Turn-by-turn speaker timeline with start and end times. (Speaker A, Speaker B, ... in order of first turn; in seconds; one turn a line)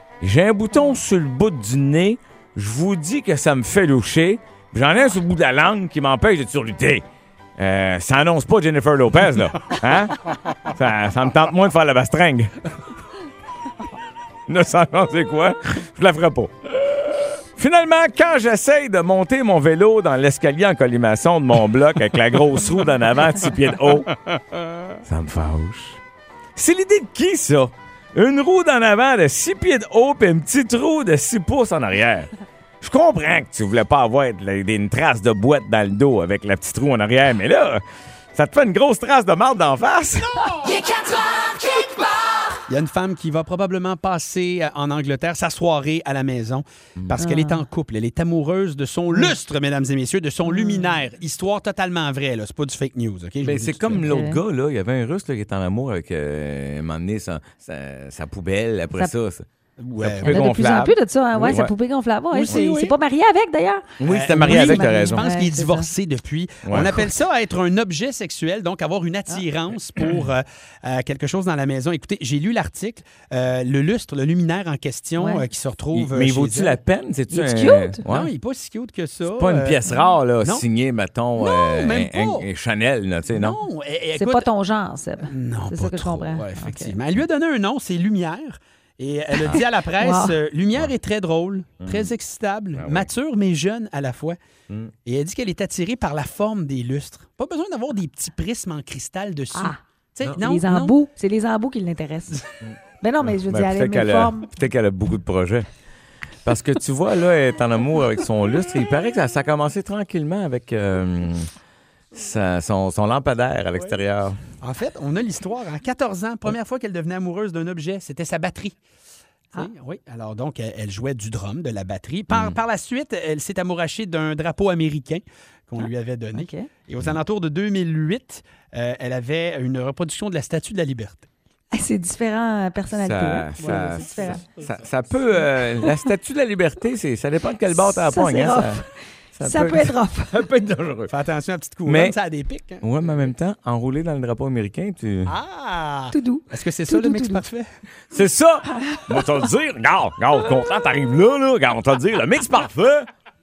Speaker A: 0.2-7.1
Speaker A: 7.6-12.7
Speaker A: 14.5-24.1
Speaker A: 25.0-26.0
Speaker A: 26.6-40.5
Speaker B: 40.4-40.9
Speaker B: 42.7-54.1
Speaker C: 47.2-47.6
Speaker C: 50.5-51.0
Speaker A: 53.4-59.5
Speaker C: 54.1-54.4
Speaker B: 59.8-60.5
Speaker A: 60.0-61.7
Speaker C: 60.2-65.9
Speaker B: 62.3-63.0
Speaker A: 64.0-65.2
Speaker B: 64.0-76.8
Speaker A: 66.7-67.0
Speaker C: 75.2-75.5
Speaker A: 75.9-78.3
Speaker C: 77.3-78.0
Speaker B: 78.0-79.8
Speaker A: 79.2-83.6
Speaker B: 81.4-82.5
Speaker B: 83.3-84.5
Speaker C: 84.2-87.0
Speaker B: 85.3-94.4
Speaker C: 89.5-90.4
Speaker A: 91.8-92.1
Speaker A: 92.8-93.1
Speaker B: 95.0-101.0
Speaker C: 99.5-99.8
Speaker C: 100.4-102.5
Speaker A: 102.6-105.7
Speaker C: 103.0-104.5
Speaker A: 106.4-111.5
Speaker A: 112.1-114.4
Speaker B: 114.6-118.8
Speaker B: 119.5-131.3
Speaker A: 122.3-122.6
Speaker C: 126.4-126.7
Speaker C: 131.7-134.4
Speaker A: 133.0-138.8
Speaker B: 133.6-134.8
Speaker C: 137.7-140.3
Speaker A: 139.4-141.1
Speaker B: 141.1-142.9
Speaker A: 141.9-142.2
Speaker A: 142.8-145.4
Speaker B: 145.3-147.7
Speaker C: 146.1-147.4
Speaker A: 148.1-153.1
Speaker C: 148.7-149.1